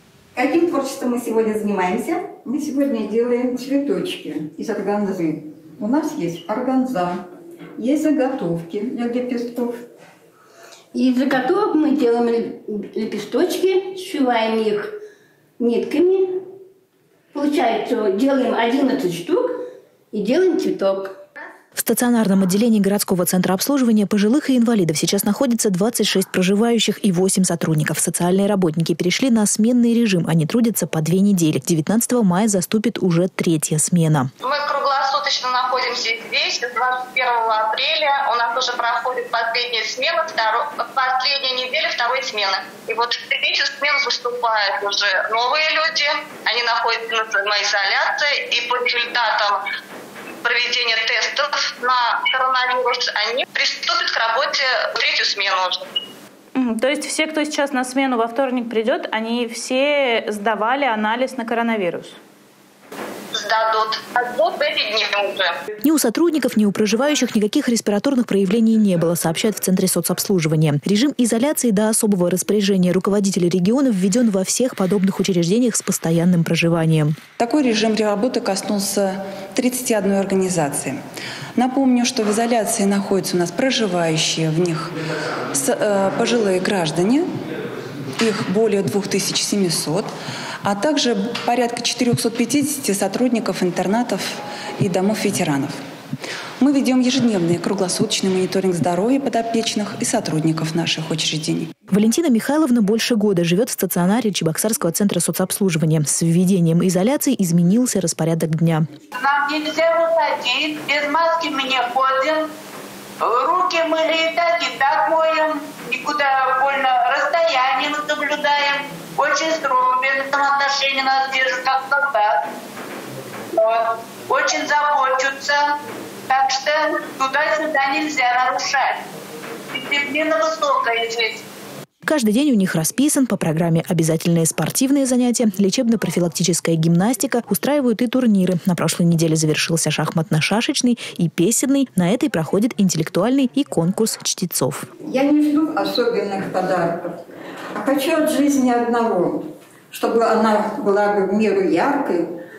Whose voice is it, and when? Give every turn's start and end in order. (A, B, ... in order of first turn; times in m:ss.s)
0:00.3-0:07.2 A
0:07.8-0:09.8 A
0:10.9-0:14.9 B
0:15.6-0:16.4 B
0:17.3-0:21.2 B
0:21.8-0:34.3 C
0:34.4-0:49.6 D
0:50.4-0:55.8 D
0:56.6-1:02.2 E
1:03.3-1:05.5 D
1:05.8-1:17.2 C
1:17.4-1:21.0 F
1:21.6-1:24.9 F
1:25.5-1:27.3 F
1:28.2-1:30.1 F
1:30.6-1:35.8 F
1:36.6-1:41.7 F
1:41.9-1:48.9 C
1:49.1-1:52.5 G
1:53.2-2:02.4 G
2:03.5-2:05.8 G
2:06.3-2:09.0 G
2:09.7-2:11.4 G
2:12.0-2:24.9 C
2:25.0-2:27.2 A
2:27.7-2:32.3 A